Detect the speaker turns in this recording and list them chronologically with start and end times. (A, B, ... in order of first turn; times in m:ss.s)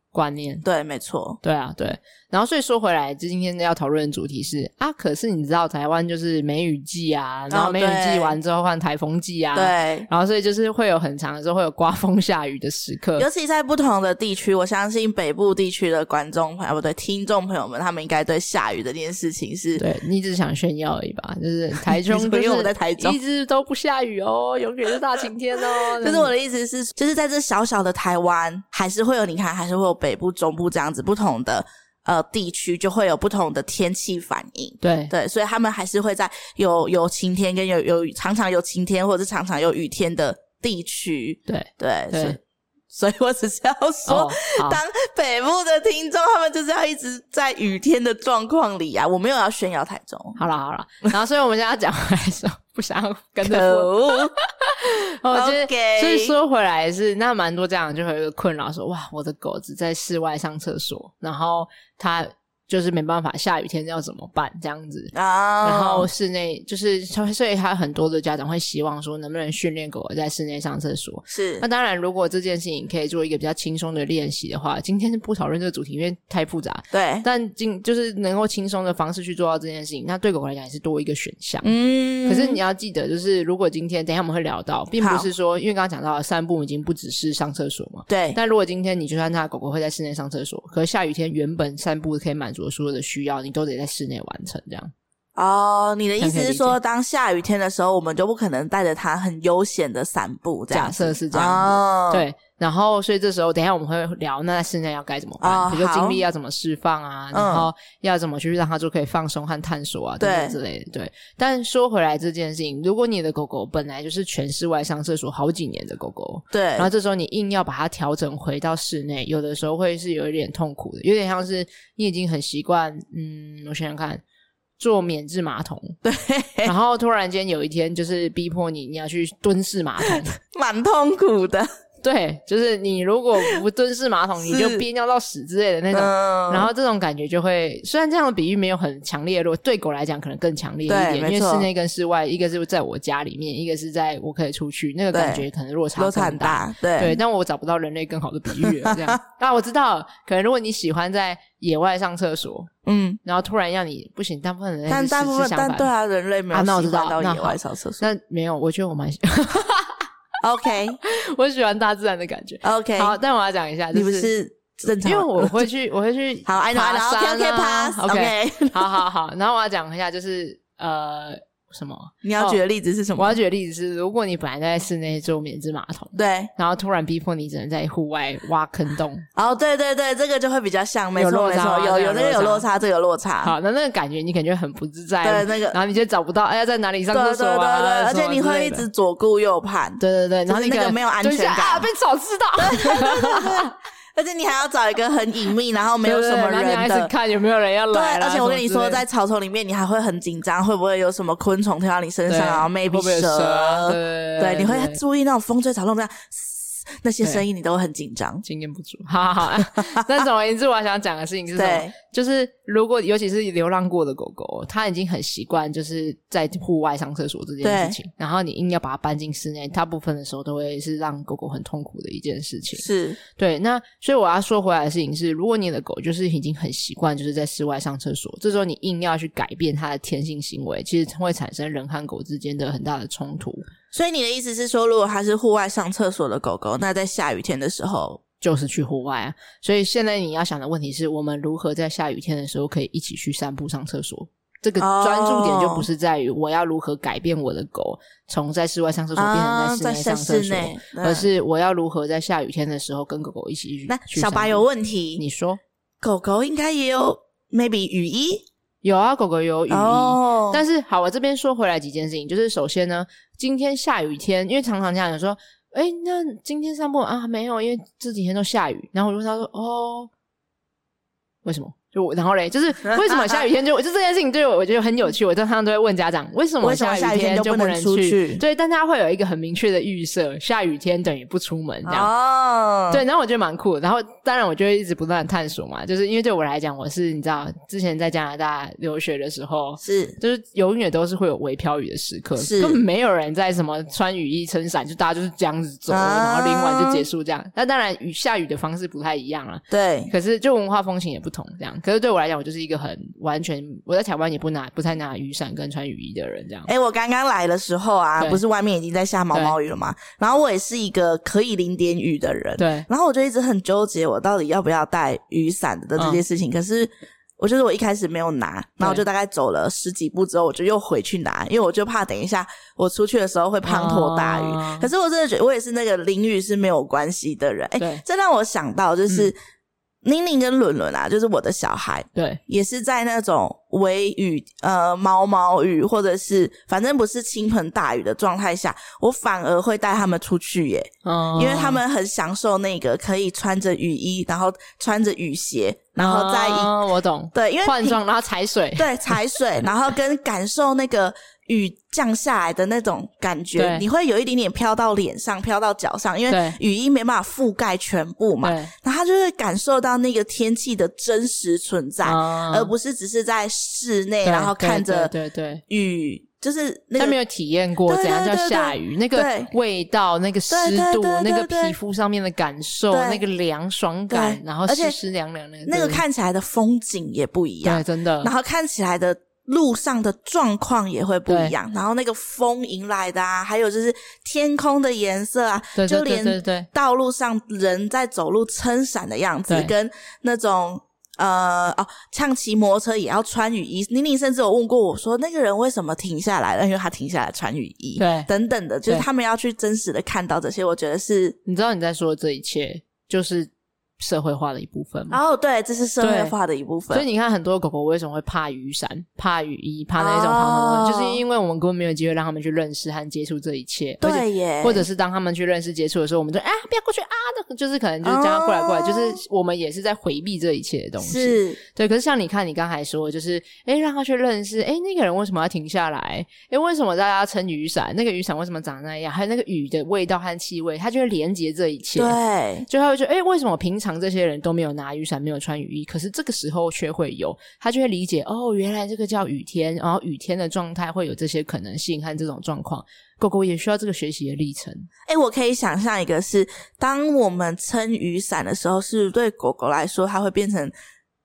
0:00.1-0:00.6 A
0:00.6-0:01.4 B
0:01.4-0:13.2 A
0:07.5-0:08.4 B
0:09.5-0:10.1 B
0:13.2-0:19.8 B
0:19.8-0:26.3 A
0:21.8-0:23.2 B
0:25.8-0:42.4 B
0:34.8-0:35.1 A
0:41.5-0:42.4 A
0:42.9-0:50.4 B
0:44.0-0:44.8 A
0:50.4-1:21.7 A
0:53.4-0:54.3 B
0:55.3-0:56.3 B
1:05.1-1:06.1 B
1:11.3-1:11.6 B
1:16.9-1:17.2 B
1:21.6-1:22.6 B
1:22.2-1:34.9 A
1:25.0-1:25.3 B
1:28.1-1:28.4 B
1:35.4-1:42.2 B
1:36.2-1:36.8 A
1:40.7-2:04.2 A
1:45.4-1:46.2 B
1:47.3-1:47.7 B
1:50.2-1:50.6 B
1:56.5-1:56.9 B
2:04.8-2:06.0 A
2:06.0-2:06.7 B
2:06.6-2:10.3 A
2:10.0-2:11.7 B
2:12.0-2:32.7 A
2:14.4-2:14.8 B
2:15.9-2:16.7 B
2:20.9-2:21.7 B
2:25.1-2:25.4 B
2:26.0-2:27.2 B
2:28.6-2:29.2 B
2:32.8-2:33.2 B
2:33.2-2:35.9 A
2:34.9-2:38.0 B
2:36.5-2:40.1 A
2:40.4-2:41.0 B
2:41.0-2:44.3 A
2:42.6-2:43.2 B
2:43.9-2:45.7 B
2:45.0-2:52.6 A
2:46.4-2:49.0 B
2:52.2-2:53.4 B
2:53.2-2:59.3 A
2:56.1-2:56.5 B
2:59.4-3:03.5 B
3:01.2-3:02.6 A
3:03.4-3:08.8 A
3:05.2-3:05.8 B
3:07.1-3:11.9 B
3:10.0-3:13.7 A
3:12.6-3:17.1 B
3:16.0-3:19.0 A
3:17.9-3:28.4 B
3:22.3-3:25.0 A
3:28.4-3:53.6 A
3:29.6-3:30.0 B
3:31.5-3:31.9 B
3:37.6-3:38.0 B
3:42.8-3:43.2 B
3:53.9-3:58.2 B
3:58.4-4:14.6 A
4:04.8-4:05.9 B
4:09.2-4:11.3 B
4:13.9-4:15.2 B
4:15.2-4:15.6 A
4:16.0-4:18.4 B
4:18.8-4:30.1 A
4:19.7-4:20.6 B
4:31.4-4:42.1 A
4:33.0-4:33.4 B
4:36.6-4:38.4 B
4:41.8-4:43.0 B
4:42.9-5:06.7 A
4:49.8-4:50.2 B
4:52.4-4:52.8 B
4:55.9-4:57.0 B
4:59.7-5:00.1 B
5:06.7-5:29.4 B
5:12.6-5:12.9 A
5:16.0-5:16.2 A
5:23.6-5:24.9 A
5:27.8-5:28.0 A
5:30.0-5:46.7 B
5:41.0-5:41.8 A
5:46.0-5:49.2 A
5:47.3-5:48.0 B
5:48.8-6:05.1 B
5:53.6-5:53.8 A
5:56.3-5:56.6 A
5:58.4-5:58.7 A
6:02.0-6:02.7 A
6:04.2-6:05.6 A
6:05.7-6:07.2 B
6:07.0-6:16.0 A
6:07.8-6:09.5 B
6:10.5-6:11.7 B
6:12.9-6:13.2 B
6:14.1-6:15.0 B
6:15.7-6:41.4 B
6:17.6-6:18.3 A
6:21.3-6:21.5 A
6:25.7-6:26.7 A
6:38.0-6:38.3 A
6:41.4-6:45.2 A
6:45.1-6:47.0 B
6:46.0-6:46.3 A
6:46.9-7:24.9 A
6:50.0-6:51.2 B
6:54.0-6:54.9 B
6:58.0-6:59.2 B
7:01.0-7:01.6 B
7:12.0-7:12.7 B
7:25.0-7:30.7 B